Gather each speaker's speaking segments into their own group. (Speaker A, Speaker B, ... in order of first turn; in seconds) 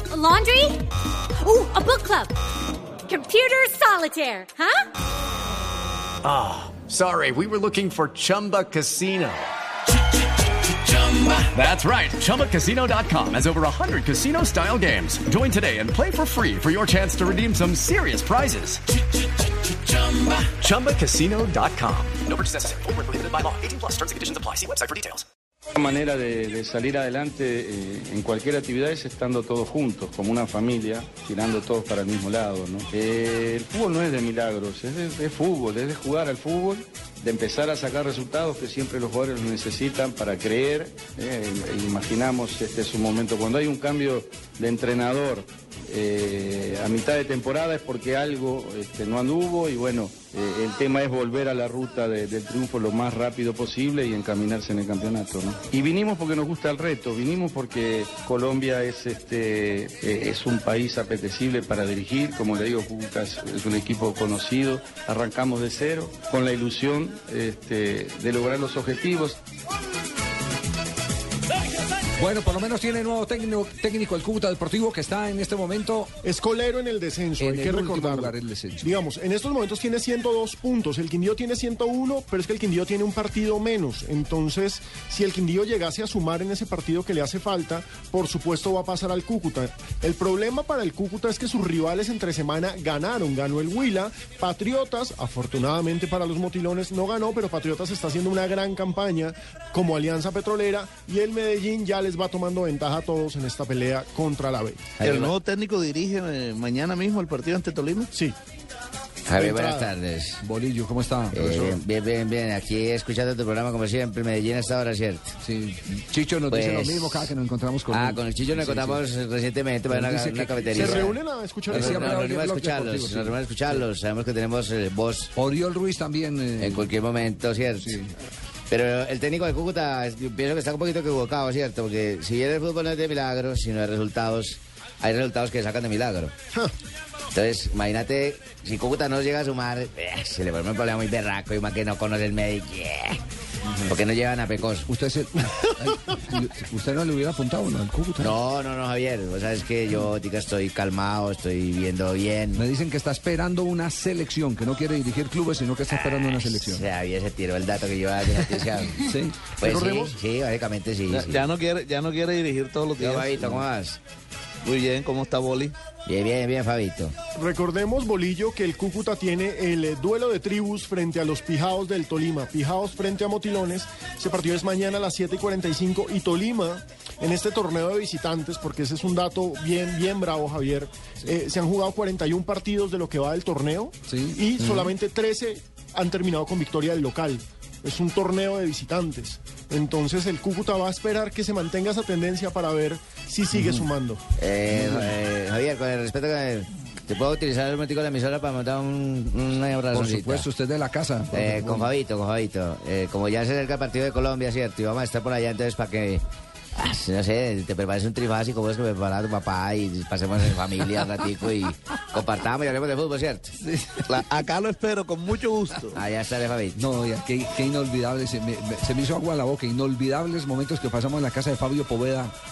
Speaker A: 0.1-0.8, 1.4-2.3, 3.1-4.8
Speaker B: 6.2-9.5, 10.9-18.8, 19.9-25.2
Speaker C: 25.7-69.4
Speaker D: 72.2-76.1, 77.4-78.9, 110.4-111.8, 115.4-119.0, 119.9-121.1, 121.7-123.8, 125.3-126.9, 127.8-128.1, 144.8-148.3, 152.5-156.8, 159.0-159.5, 184.1-184.7, 193.6-193.8, 194.7-195.1, 199.9-201.9, 213.6-214.2, 216.7-222.3
Speaker E: 76.2-105.0, 109.3-109.9, 120.7-122.2, 159.6-160.2, 167.3-194.2
Speaker F: 105.0-108.1, 161.1-163.7, 164.6-165.8, 214.1-216.0
Speaker G: 105.0-105.3, 109.2-110.4, 111.3-115.3, 116.5-117.3, 117.9-121.2, 121.7-125.3, 126.6-128.0, 128.7-136.3, 137.3-143.2, 143.8-144.9, 148.2-152.6, 155.9-159.0, 159.6-161.4, 163.0-164.0, 166.1-167.1, 194.4-200.4, 201.3-213.5, 215.9-216.8